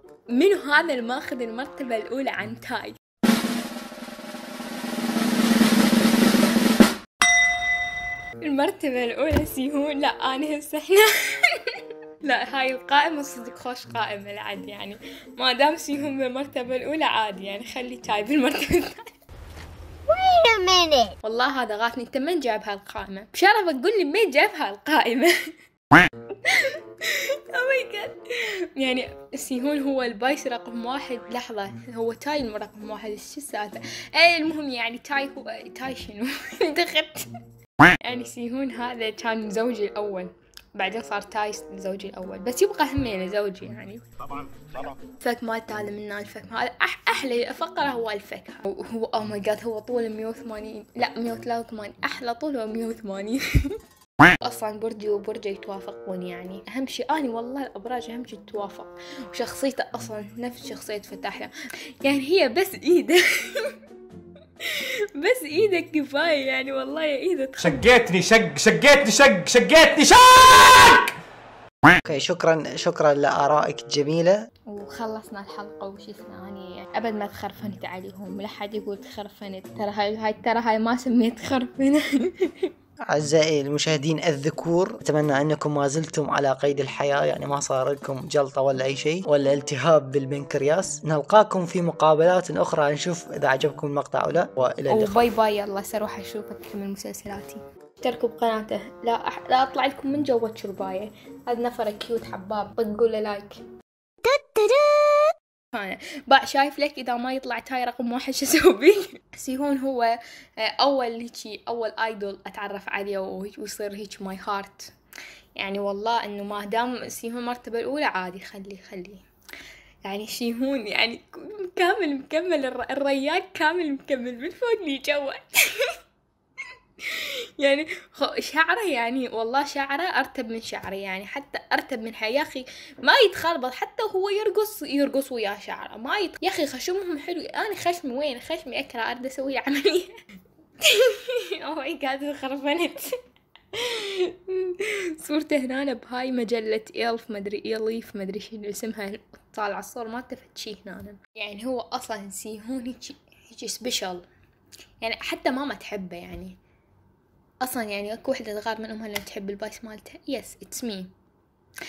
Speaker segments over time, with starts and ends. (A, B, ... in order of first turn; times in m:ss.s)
0:00.3-0:03.0 A
0:08.4-0:19.1 A
0:20.1-0:21.2 B
0:21.2-0:25.3 A
0:25.9-0:37.3 A
0:38.0-0:44.0 A
0:44.8-0:53.8 A
0:54.4-1:03.8 A
1:04.6-1:07.8 A
1:07.6-1:11.1 C
1:12.0-1:14.4 D
1:14.7-1:22.7 A
1:23.1-1:35.2 D
1:34.9-1:43.6 A
1:44.2-1:45.3 B
1:45.7-1:54.9 A
1:55.6-1:59.2 A
2:00.0-2:06.0 A
2:07.0-2:20.1 A
2:20.8-2:23.2 A
2:23.7-2:34.3 A
2:35.0-2:36.6 A
2:37.6-2:41.1 A